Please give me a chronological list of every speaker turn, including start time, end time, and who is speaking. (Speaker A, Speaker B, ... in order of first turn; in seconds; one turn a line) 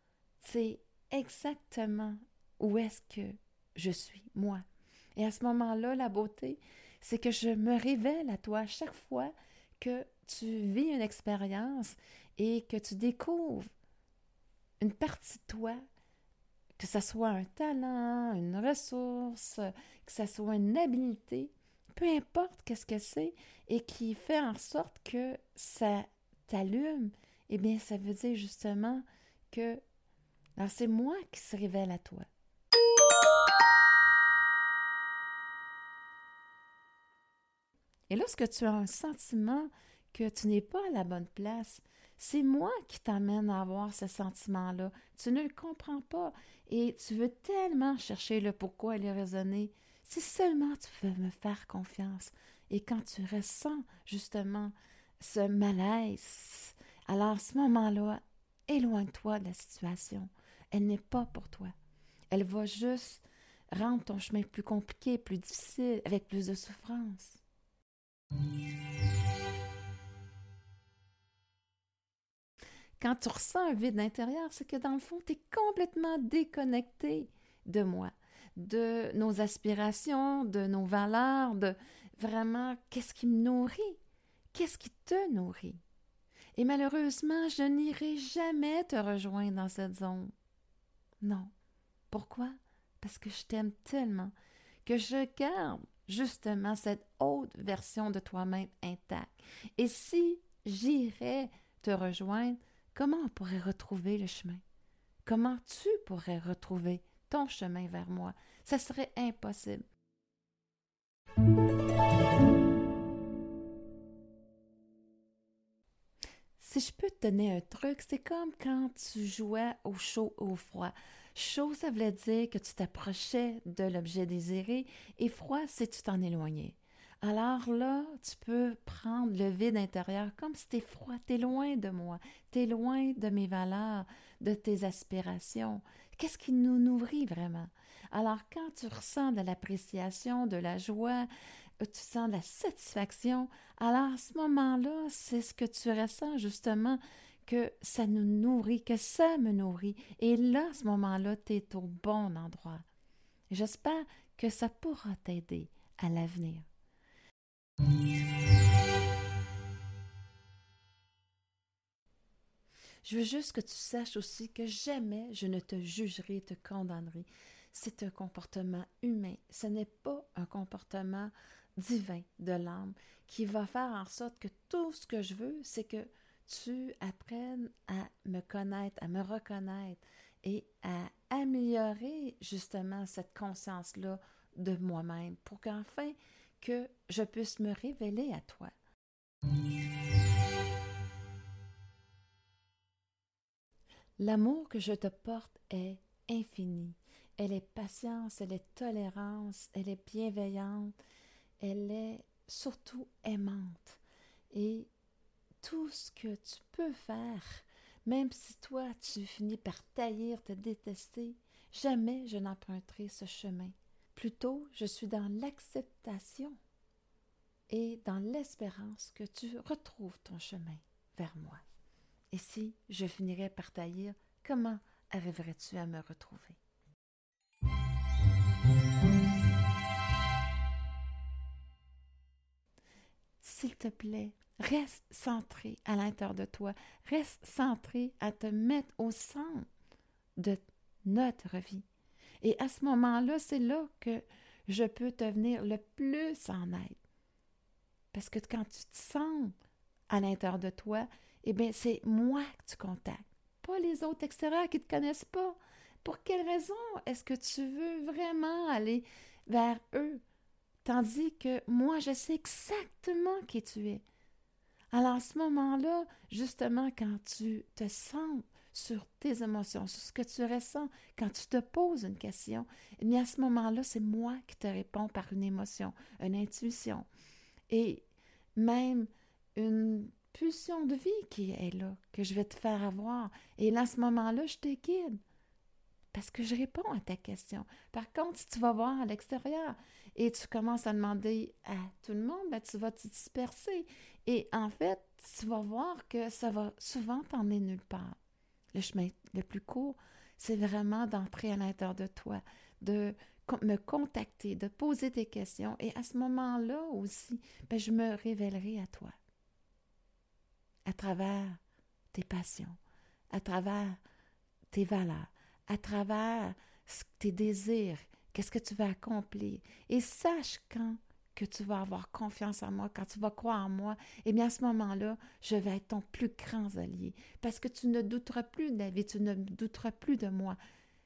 Speaker A: 0.4-4.6
Speaker A: 5.2-13.7
Speaker A: 14.8-15.8
Speaker A: 16.8-29.8
Speaker A: 30.6-32.3
Speaker A: 38.1-61.7
Speaker A: 62.3-67.4
Speaker A: 73.0-84.0
Speaker A: 84.5-85.8
Speaker A: 86.6-90.3
Speaker A: 91.2-91.5
Speaker A: 92.1-94.3
Speaker A: 94.8-104.6
Speaker A: 105.2-109.8
Speaker A: 116.6-141.3
Speaker A: 141.8-152.9
Speaker A: 153.5-156.7
Speaker A: 163.0-188.7
Speaker A: 194.2-200.9
Speaker A: 201.6-204.9
Speaker A: 205.6-216.6
Speaker A: 217.7-221.6
Speaker A: 222.3-226.6
Speaker A: 233.4-239.7
Speaker A: 240.4-241.8
Speaker A: 242.4-247.0
Speaker A: 248.1-249.6
Speaker A: 250.1-260.2
Speaker A: 260.8-264.0
Speaker A: 264.9-277.1
Speaker A: 277.7-278.0
Speaker A: 278.6-285.2
Speaker A: 286.1-298.2
Speaker A: 298.7-309.1
Speaker A: 310.9-311.6
Speaker A: 312.1-312.8
Speaker A: 313.3-314.0
Speaker A: 314.7-330.6